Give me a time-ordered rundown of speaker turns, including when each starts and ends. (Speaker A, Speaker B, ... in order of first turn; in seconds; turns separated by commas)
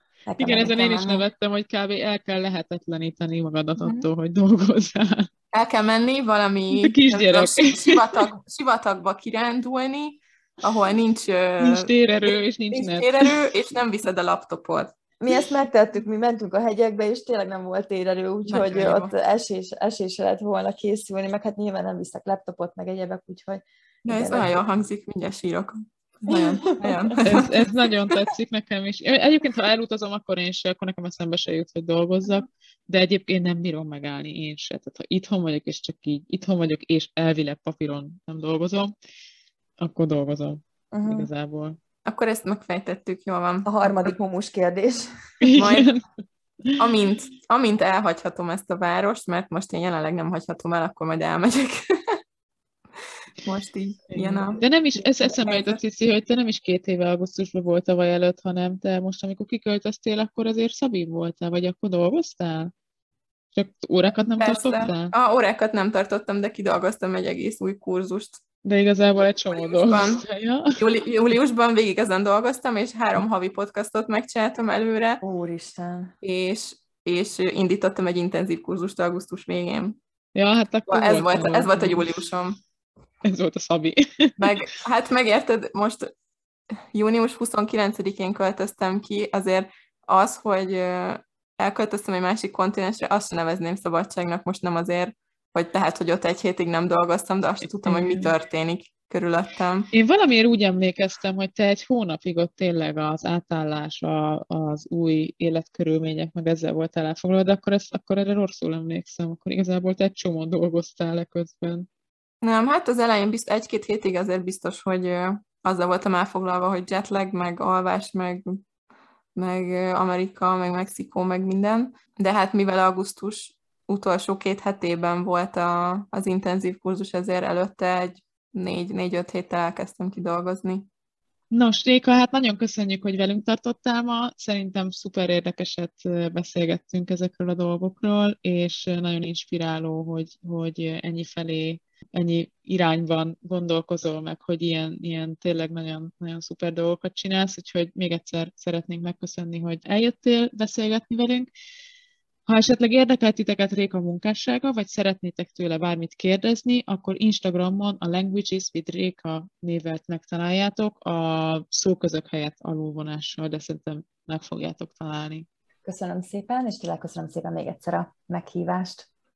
Speaker A: 0.3-1.3, Speaker B: 0.4-5.3, Speaker A: 3.8-4.1, Speaker C: 5.5-14.9, Speaker B: 6.7-8.3, Speaker B: 11.6-13.4, Speaker A: 15.2-24.6, Speaker C: 18.5-19.1, Speaker C: 24.1-28.3, Speaker A: 26.3-27.3, Speaker B: 27.2-38.9, Speaker B: 39.8-41.8, Speaker A: 40.9-41.3, Speaker C: 42.0-44.1, Speaker A: 43.7-45.6, Speaker B: 45.4-46.0, Speaker C: 45.5-45.9, Speaker C: 46.8-52.2, Speaker C: 53.4-54.6, Speaker B: 54.1-62.7, Speaker B: 63.5-65.1, Speaker C: 64.4-68.4, Speaker B: 68.6-70.8, Speaker C: 69.5-70.2, Speaker C: 70.8-75.2, Speaker A: 75.2-76.2, Speaker C: 76.2-80.0, Speaker B: 80.3-82.1, Speaker C: 80.9-82.6, Speaker B: 83.2-84.6, Speaker C: 84.4-86.1, Speaker C: 86.9-99.9, Speaker B: 97.9-98.3, Speaker B: 99.9-111.9, Speaker C: 112.4-118.7, Speaker C: 119.3-130.9, Speaker B: 131.5-151.5, Speaker B: 152.5-165.5, Speaker A: 165.8-169.1